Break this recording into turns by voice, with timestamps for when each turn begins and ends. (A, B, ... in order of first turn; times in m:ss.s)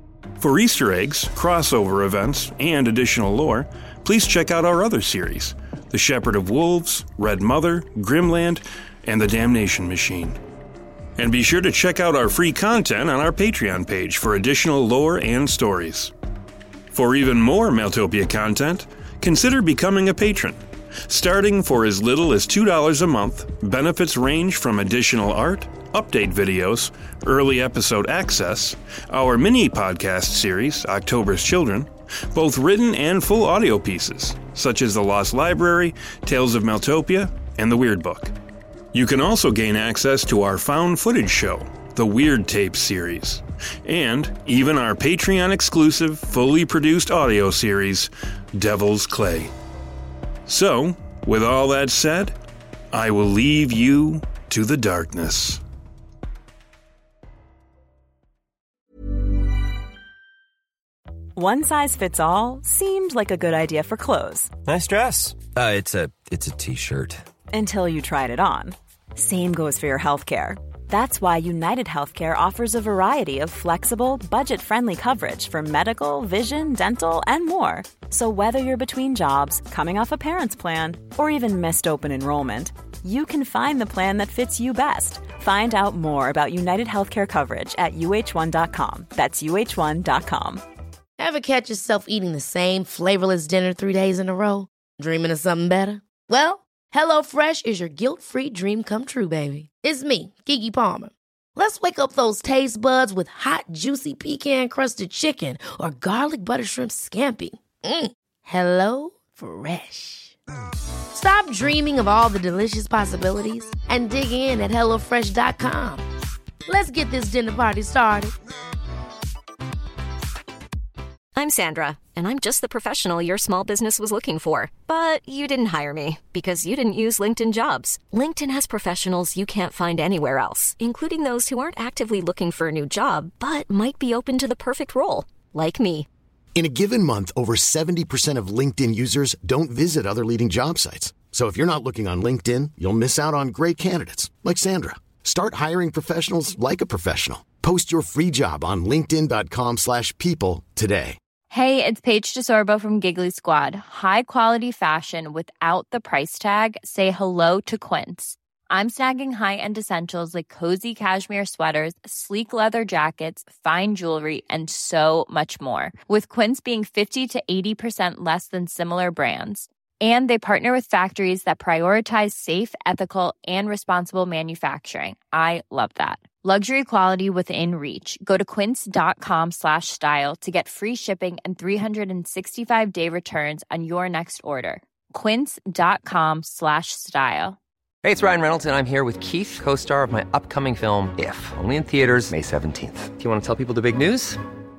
0:00.4-0:10.4 A
0:11.2-0:16.1 A
0:16.9-0:38.3 A
0:38.9-0:49.5 A
0:50.5-0:52.3 A
0:52.9-0:55.6 A
1:01.4-1:04.5 B
1:04.6-1:07.2 C
1:07.5-1:30.6 B
1:31.2-1:50.4 D
1:51.1-1:56.0 D
1:56.6-1:58.3 D
2:01.3-2:16.1 E
2:16.6-2:31.2 F
2:31.5-3:07.6 G
3:08.0-3:14.4 H